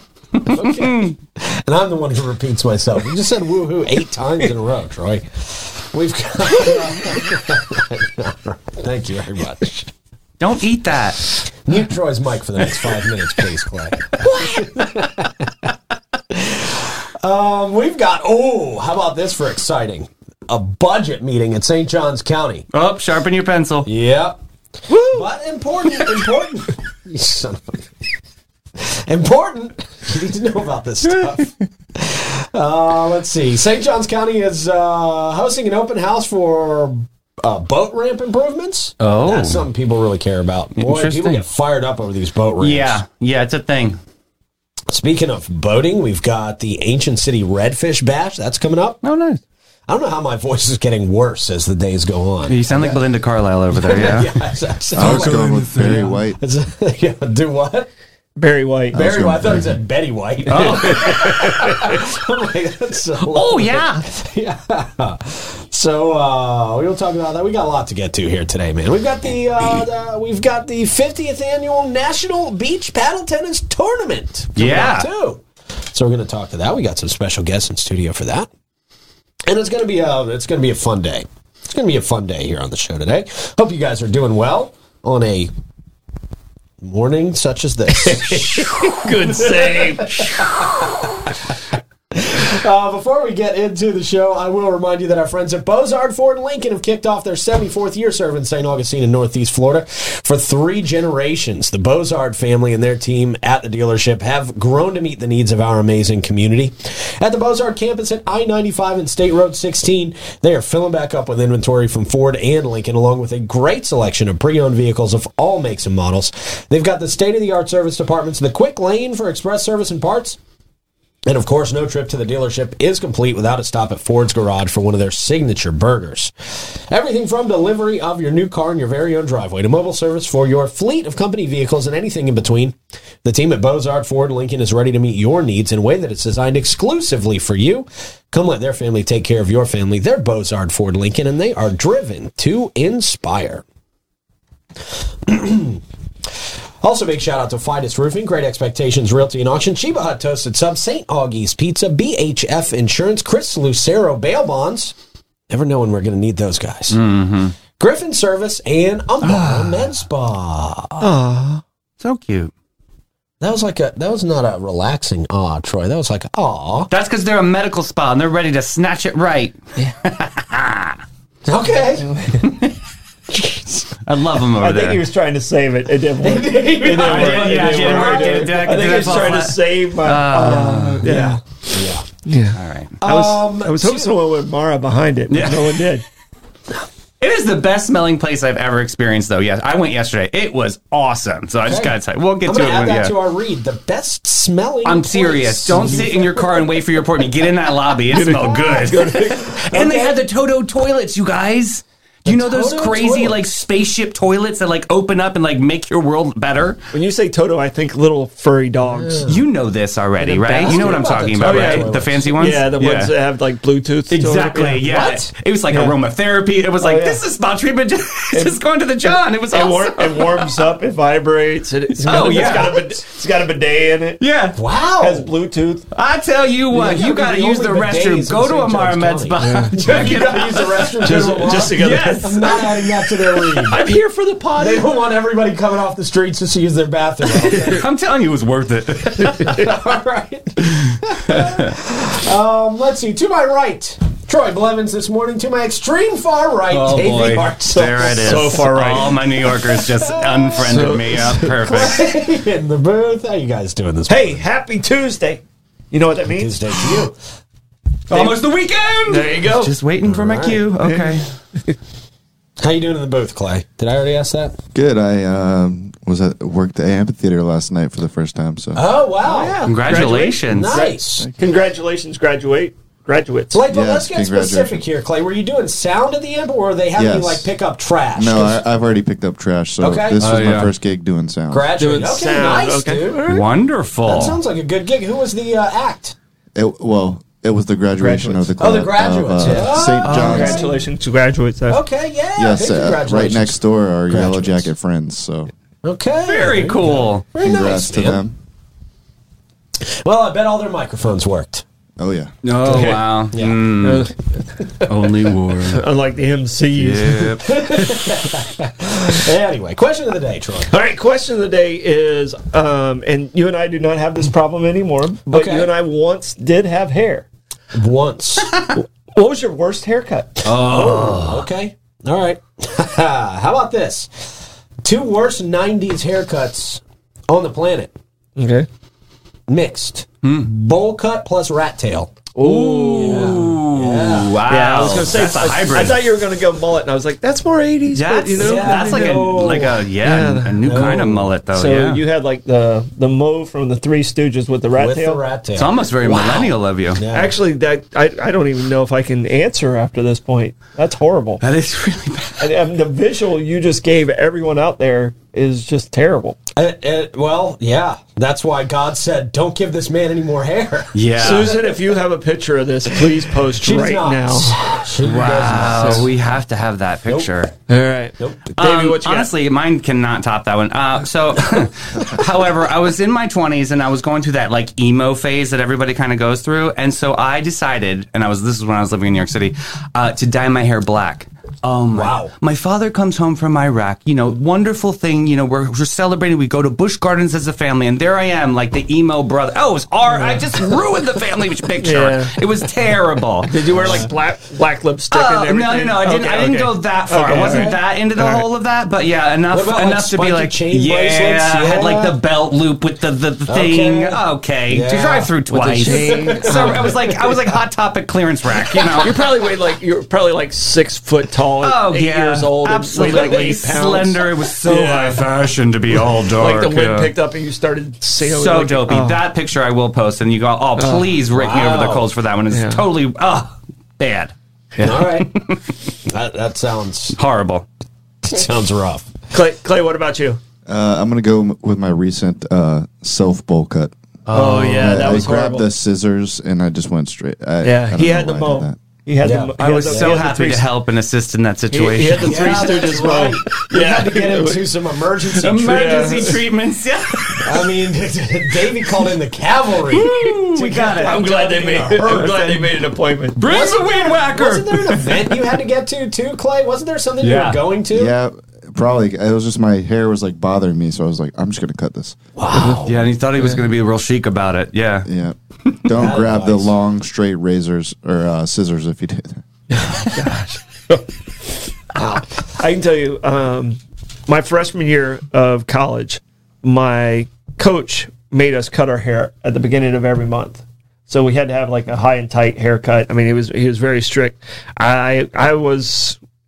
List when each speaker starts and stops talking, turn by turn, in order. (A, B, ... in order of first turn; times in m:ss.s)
0:00.4-0:01.2 A
0:00.4-0:09.9 B
0:10.4-0:11.3 A
0:11.6-0:15.7 B
0:16.3-0:22.7 B
0:22.7-0:23.9 A
0:23.8-0:24.4 B
0:24.9-0:25.3 C
0:24.9-0:27.9 B
0:28.8-0:43.0 B
0:39.0-0:39.6 A
0:40.8-0:41.4 A
0:42.6-0:44.0 A
0:44.9-0:49.0 B
0:49.0-0:49.4 A
0:49.9-0:53.0 B
0:52.5-0:54.4 A
0:53.7-0:57.9 B
0:54.9-0:56.4 D
0:55.0-0:56.0 A
0:58.4-0:59.0 C
0:58.9-0:59.8 D
0:58.9-1:18.5 B
1:00.5-1:01.9 A
1:00.5-1:01.3 C
1:03.3-1:04.0 A
1:14.6-1:15.1 A
1:19.5-1:25.5 B
1:26.8-1:31.4 B
1:28.0-1:30.5 C
1:32.1-2:00.4 B
2:01.2-2:23.6 B
2:25.2-2:25.8 B
2:26.3-2:34.9 B
2:35.5-2:37.0 B
2:36.9-2:37.6 A
2:37.8-2:41.1 B
2:39.2-2:39.9 A
2:41.0-2:41.6 C
2:42.0-2:42.5 A
2:43.4-2:46.9 B
2:46.9-2:51.0 A
2:51.4-2:52.1 B
2:52.0-2:52.5 C
2:52.4-2:52.7 A
2:53.3-2:55.0 A
2:54.6-3:01.4 C
2:56.2-2:58.8 B
2:56.8-3:01.1 A
3:01.0-3:02.0 B
3:02.2-3:06.0 C
3:02.5-3:03.0 A
3:03.0-3:04.1 B
3:05.3-3:05.9 A
3:07.2-3:13.1 A
3:11.6-3:16.9 B
3:14.8-3:26.8 A
3:18.1-3:19.6 C
3:19.6-3:20.2 B
3:22.2-3:23.4 B
3:26.9-3:29.3 C
3:28.8-3:29.4 B
3:29.3-3:33.1 A
3:30.2-3:35.9 C
3:30.6-3:32.4 B
3:34.1-3:40.6 A
3:36.8-3:37.2 C
3:38.3-3:38.6 C
3:39.5-3:44.2 C
3:42.0-3:42.9 A
3:44.2-3:44.6 A
3:44.5-3:45.3 B
3:45.0-3:45.9 C
3:45.9-3:52.9 A
3:46.7-3:53.8 B
3:49.4-3:50.1 C
3:51.0-3:52.7 C
3:53.4-3:55.0 C
3:53.6-3:54.0 A
3:54.6-3:57.8 B
3:57.3-3:59.7 A
3:59.1-4:08.3 B
4:00.9-4:01.7 A
4:06.7-4:12.1 A
4:07.7-4:09.2 C
4:09.4-4:14.4 B
4:10.6-4:11.2 C
4:14.1-4:17.0 C
4:16.3-4:17.2 B
4:18.1-4:21.3 A
4:18.1-4:18.4 C
4:19.1-4:19.7 C
4:20.0-4:20.7 B
4:20.8-4:21.2 C
4:22.6-4:24.6 B
4:24.7-4:28.8 D
4:28.7-4:29.7 B
4:29.2-4:33.6 C
4:29.6-4:30.8 A
4:30.4-4:31.3 B
4:33.5-4:38.6 B
4:33.7-4:34.8 D
4:37.0-4:37.5 D
4:38.2-4:41.7 D
4:39.8-4:40.5 B
4:40.2-4:40.7 A
4:41.5-4:43.4 B
4:41.8-4:43.4 C
4:43.3-4:44.4 A
4:44.0-4:46.2 B
4:46.5-4:50.7 D
4:48.0-4:48.5 C
4:48.6-4:50.7 B
4:49.4-4:51.8 C
4:50.0-4:50.6 A
4:51.7-4:54.7 B
4:52.4-4:55.5 D
4:55.8-4:58.2 B
4:56.2-4:57.2 A
4:57.4-4:58.4 D
4:59.8-5:01.6 B
5:02.0-5:02.3 D
5:02.4-5:04.1 A
5:02.7-5:03.0 C
5:03.3-5:03.7 B
5:03.8-5:04.2 C
5:04.8-5:05.8 A
5:05.7-5:07.2 C
5:06.8-5:07.6 A
5:07.2-5:10.8 B
5:10.6-5:17.3 C
5:15.3-5:15.7 B
5:17.7-5:18.6 B
5:18.7-5:20.5 C
5:20.4-5:21.4 A
5:20.5-5:27.9 B
5:28.4-5:28.7 C
5:29.5-5:32.2 B
5:30.2-5:30.5 A
5:32.4-5:33.5 C
5:32.4-5:36.1 A
5:32.9-5:34.4 B
5:34.4-5:45.2 C
5:37.9-5:42.0 A
5:38.4-5:39.8 B
5:40.6-5:41.3 B
5:44.8-5:47.4 B
5:45.6-5:47.0 A
5:47.1-5:51.4 C
5:51.4-5:52.6 A
5:52.4-5:56.4 C
5:56.5-6:01.6 B
6:00.9-6:01.6 A
6:01.2-6:04.6 C
6:03.6-6:06.1 B
6:05.0-6:07.5 A
6:05.6-6:06.0 C
6:07.7-6:09.3 C
6:08.2-6:08.4 B
6:08.6-6:34.0 A
6:21.9-6:22.3 B
6:30.1-6:30.6 C
6:31.8-6:32.4 C
6:33.4-6:38.5 C
6:33.7-6:34.1 B
6:35.1-6:49.2 A
6:37.3-6:37.7 B
6:39.5-6:42.2 B
6:43.5-6:45.3 B
6:45.5-6:47.0 C
6:45.8-6:47.4 B
6:49.0-6:55.3 C
6:51.6-6:57.1 A
6:53.0-6:53.3 B
6:55.9-6:59.2 C
6:58.2-7:05.6 A
7:00.8-7:01.1 C
7:01.3-7:02.1 B
7:02.5-7:02.8 C
7:04.8-7:05.4 B
7:06.0-7:07.2 B
7:07.2-7:07.6 A
7:08.2-7:09.1 B
7:09.3-7:10.4 C
7:10.6-7:13.9 D
7:14.3-7:15.2 A
7:14.3-7:15.7 C
7:14.8-7:18.8 D
7:17.6-7:20.7 C
7:19.2-7:20.1 B
7:19.6-7:23.0 A
7:21.7-7:24.6 C
7:22.1-7:26.3 B
7:25.4-7:27.6 A
7:25.6-7:26.4 C
7:27.4-7:32.4 B
7:29.9-7:35.4 A
7:30.2-7:33.4 C
7:33.4-7:38.1 B
7:37.2-7:37.6 A
7:37.9-7:42.2 D
7:42.4-7:43.1 B
7:42.8-7:45.1 A
7:45.0-7:49.4 D
7:46.0-7:46.7 B
7:49.7-7:51.0 C
7:51.9-8:06.2 C